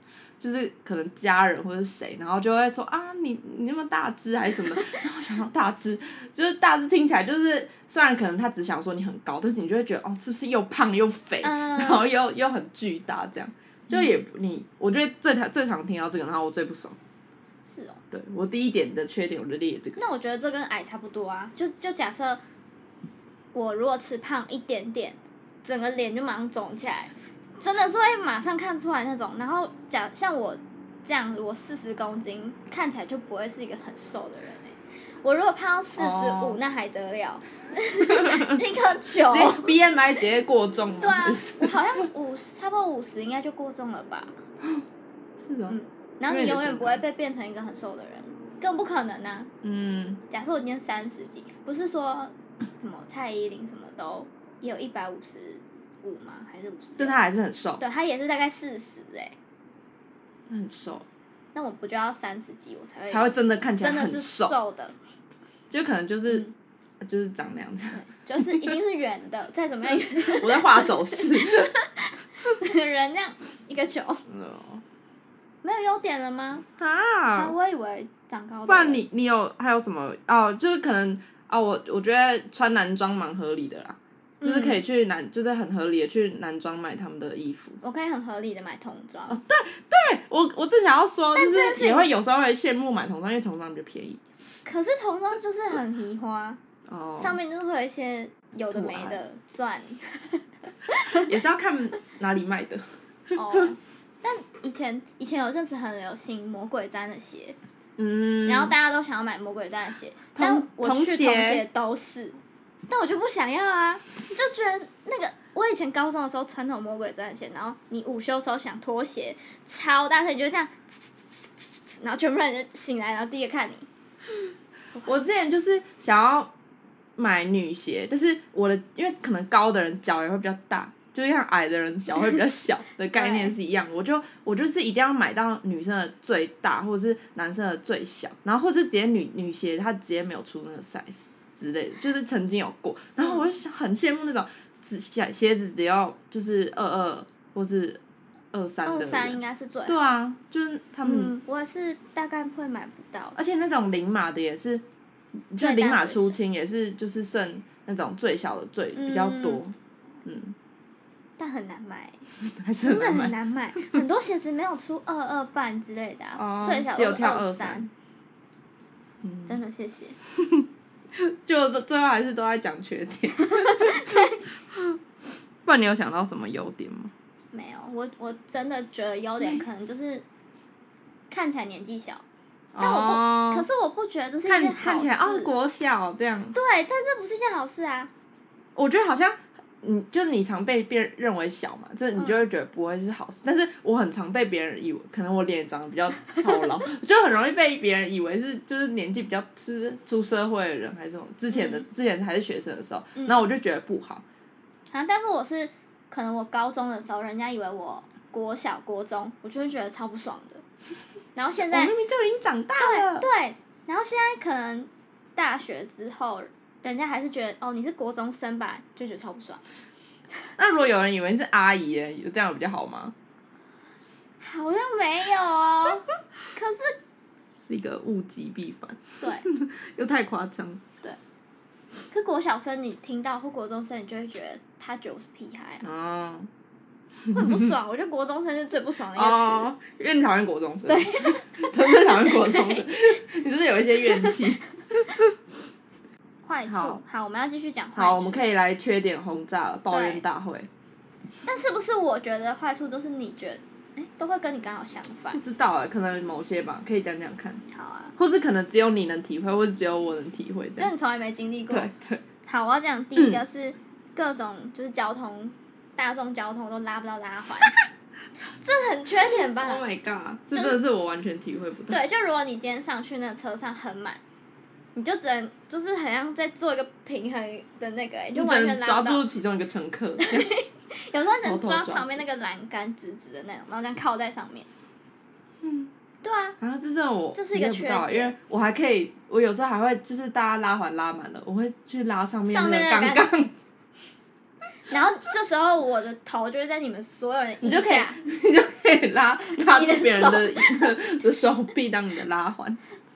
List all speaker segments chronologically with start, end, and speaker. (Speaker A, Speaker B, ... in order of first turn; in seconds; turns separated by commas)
Speaker A: 0.4-17.0, Speaker B: 11.4-12.1, Speaker B: 17.7-18.0, Speaker A: 18.1-20.0, Speaker B: 20.0-22.4, Speaker B: 23.5-39.7, Speaker A: 36.0-36.6, Speaker A: 38.2-38.5, Speaker A: 39.2-42.0, Speaker B: 41.0-44.4, Speaker A: 45.4-47.0, Speaker B: 45.7-49.5, Speaker A: 49.6-50.2, Speaker B: 50.3-57.2, Speaker A: 57.0-57.8, Speaker B: 57.8-59.4, Speaker A: 60.5-61.1, Speaker B: 61.5-65.0, Speaker A: 63.1-64.6, Speaker A: 65.7-66.5, Speaker B: 66.3-66.5, Speaker A: 67.0-68.8, Speaker B: 67.9-74.2, Speaker A: 70.2-71.7, Speaker A: 74.3-74.8, Speaker B: 75.6-76.7, Speaker A: 76.8-77.6, Speaker B: 77.3-79.0, Speaker A: 78.7-87.8, Speaker B: 84.4-84.8, Speaker B: 87.8-89.4, Speaker A: 89.3-94.2, Speaker B: 91.3-92.1, Speaker B: 94.7-96.6, Speaker A: 96.9-97.4, Speaker B: 97.2-101.3, Speaker A: 98.7-99.2, Speaker A: 101.1-103.7, Speaker B: 103.3-107.6, Speaker A: 108.0-108.8, Speaker B: 108.5-121.0, Speaker A: 110.3-111.7, Speaker B: 121.9-123.9, Speaker A: 125.0-126.5, Speaker A: 127.2-148.0, Speaker B: 133.1-133.5, Speaker A: 148.5-151.4, Speaker B: 148.8-150.0, Speaker B: 151.0-153.4, Speaker A: 153.4-154.8, Speaker A: 155.5-160.6, Speaker B: 155.6-156.4, Speaker B: 158.9-159.6, Speaker B: 161.4-162.2, Speaker A: 162.4-164.0, Speaker B: 162.8-167.9, Speaker A: 166.4-167.9, Speaker A: 169.2-169.6, Speaker B: 169.5-170.2, Speaker A: 170.4-175.0, Speaker B: 173.4-174.4, Speaker A: 175.7-177.1, Speaker B: 177.5-180.2, Speaker A: 179.4-179.7, Speaker B: 181.3-182.2, Speaker A: 182.7-183.7, Speaker B: 182.8-185.5, Speaker A: 184.5-186.6, Speaker B: 186.6-188.1, Speaker A: 188.8-204.2, Speaker B: 201.5-201.8, Speaker B: 203.2-203.4, Speaker B: 204.9-210.6, Speaker B: 211.4-211.9, Speaker A: 211.7-213.3, Speaker B: 212.8-219.6, Speaker A: 220.6-223.2, Speaker B: 224.4-227.0, Speaker A: 227.7-230.8, Speaker B: 232.1-235.8, Speaker A: 235.8-236.5, Speaker A: 237.3-237.7, Speaker B: 237.3-239.7, Speaker A: 239.2-245.3, Speaker B: 240.9-242.8, Speaker B: 246.4-248.4, Speaker A: 246.7-247.0, Speaker A: 247.9-250.7, Speaker B: 249.9-250.2, Speaker B: 251.4-255.4, Speaker A: 255.3-257.6, Speaker B: 257.7-258.1, Speaker A: 258.2-260.9, Speaker B: 260.8-261.9, Speaker A: 261.7-262.2, Speaker B: 262.5-267.8, Speaker A: 263.2-263.4, Speaker B: 268.6-269.8, Speaker A: 269.5-272.0, Speaker B: 270.5-270.8, Speaker B: 271.9-274.2, Speaker B: 275.0-279.2, Speaker A: 278.3-280.5, Speaker B: 280.2-284.7, Speaker A: 281.4-282.2, Speaker A: 285.6-285.9, Speaker B: 286.2-286.6, Speaker A: 286.6-293.5, Speaker B: 287.4-288.4, Speaker B: 292.5-293.3, Speaker B: 294.9-298.2, Speaker A: 297.6-302.8, Speaker B: 299.7-301.0